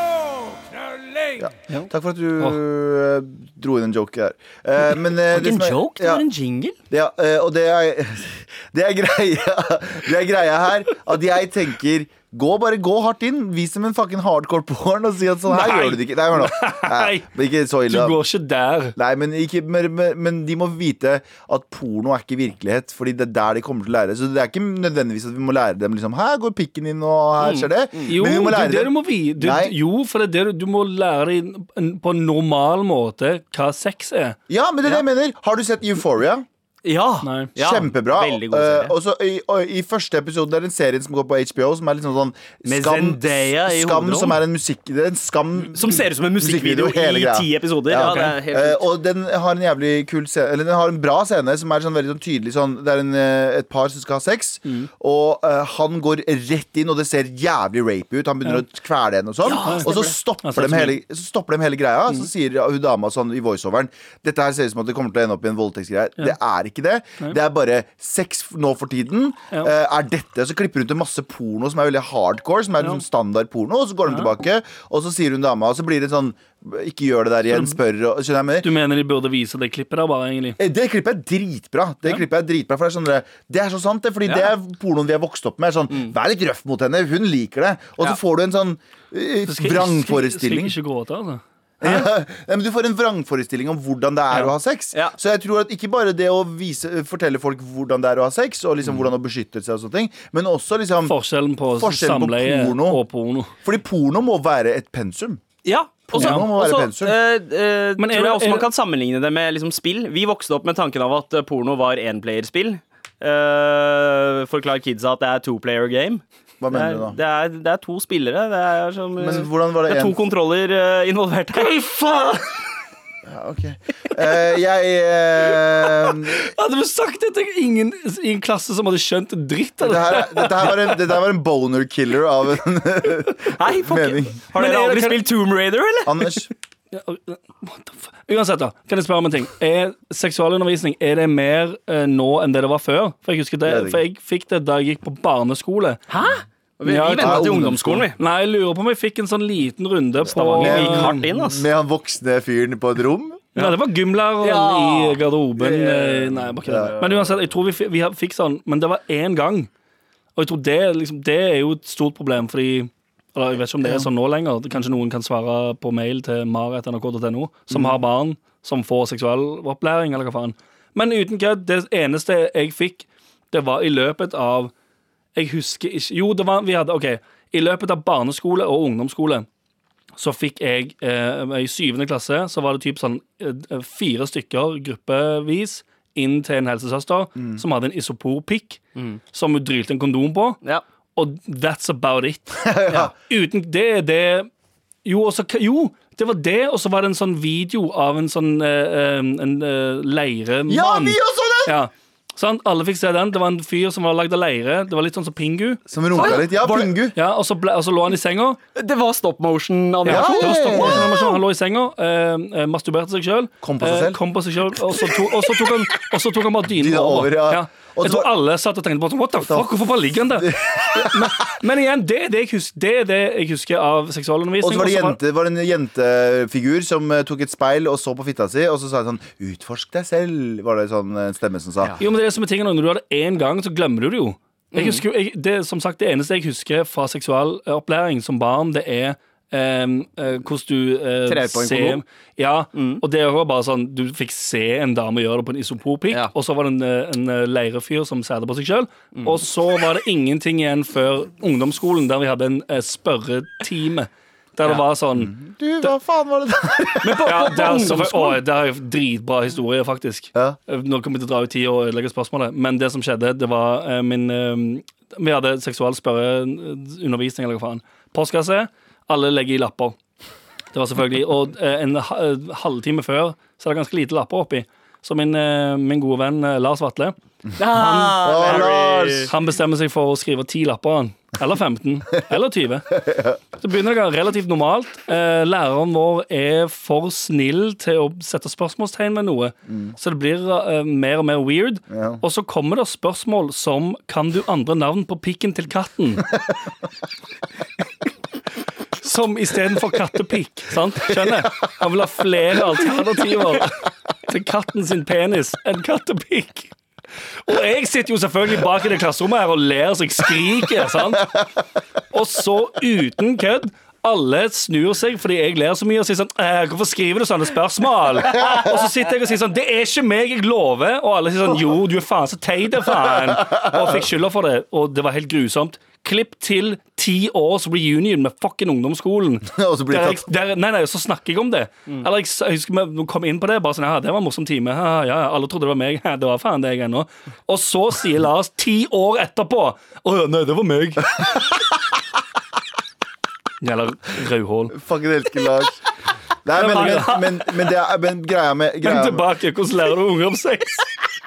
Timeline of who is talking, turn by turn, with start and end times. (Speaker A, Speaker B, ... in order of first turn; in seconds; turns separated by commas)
Speaker A: 1.4-6.2, Speaker B: 1.7-2.6, Speaker C: 5.2-6.8, Speaker A: 6.9-18.2, Speaker B: 15.5-17.3, Speaker B: 17.9-18.9, Speaker A: 18.9-29.7, Speaker C: 27.4-28.1, Speaker B: 28.1-34.4, Speaker A: 34.5-36.5, Speaker C: 36.8-38.9, Speaker B: 37.2-37.5, Speaker A: 37.5-78.7, Speaker C: 42.6-44.4, Speaker C: 45.7-48.9, Speaker B: 48.0-48.4, Speaker C: 59.4-60.1, Speaker B: 59.5-59.9, Speaker B: 60.4-61.0, Speaker B: 77.5-77.8, Speaker B: 78.6-80.6, Speaker A: 80.6-90.8, Speaker B: 89.4-92.0, Speaker A: 91.8-101.2, Speaker B: 101.0-103.5, Speaker A: 101.7-103.0, Speaker A: 103.6-105.4, Speaker C: 105.6-121.8, Speaker A: 106.1-107.1, Speaker B: 106.2-106.5, Speaker B: 108.0-108.7, Speaker A: 116.6-117.2, Speaker A: 119.2-120.2, Speaker B: 121.6-122.6, Speaker A: 123.2-126.5, Speaker B: 126.0-130.9, Speaker A: 129.8-134.3, Speaker C: 133.5-136.4, Speaker B: 134.5-135.2, Speaker A: 136.0-136.5, Speaker B: 136.9-146.0, Speaker A: 143.7-144.0, Speaker C: 146.1-148.2, Speaker B: 146.8-151.2, Speaker A: 147.1-148.1, Speaker C: 150.3-151.6, Speaker A: 150.6-153.5, Speaker B: 153.6-159.7, Speaker C: 154.4-156.2, Speaker A: 156.4-157.0, Speaker B: 160.3-174.7, Speaker B: 175.3-179.5, Speaker B: 180.2-188.8, Speaker B: 189.3-190.6, Speaker B: 191.2-192.7, Speaker A: 192.6-193.1, Speaker B: 193.3-194.5, Speaker B: 195.0-206.3, Speaker A: 200.7-201.8, Speaker A: 205.9-207.2, Speaker C: 206.1-206.9, Speaker B: 207.1-208.6, Speaker C: 208.7-210.9, Speaker A: 210.0-211.4, Speaker B: 210.1-225.2, Speaker A: 213.6-214.2, Speaker A: 216.7-218.3, Speaker A: 219.4-221.3, Speaker A: 224.6-231.9, Speaker B: 232.0-255.9, Speaker C: 234.7-235.0, Speaker C: 241.3-242.0, Speaker C: 242.7-243.0, Speaker A: 255.2-257.3, Speaker C: 257.0-258.4, Speaker B: 257.2-270.0, Speaker B: 270.7-278.2, Speaker C: 277.6-279.3, Speaker A: 277.8-279.3, Speaker B: 279.2-283.0, Speaker A: 283.0-283.4, Speaker B: 283.6-296.3, Speaker A: 289.7-289.9, Speaker A: 291.9-292.2, Speaker B: 299.0-306.7, Speaker B: 307.4-311.4, Speaker B: 312.1-341.4, Speaker A: 323.3-323.7, Speaker A: 329.4-330.3, Speaker B: 343.6-344.8, Speaker A: 344.7-345.8, Speaker A: 346.4-349.3, Speaker B: 346.5-347.5, Speaker B: 348.8-350.8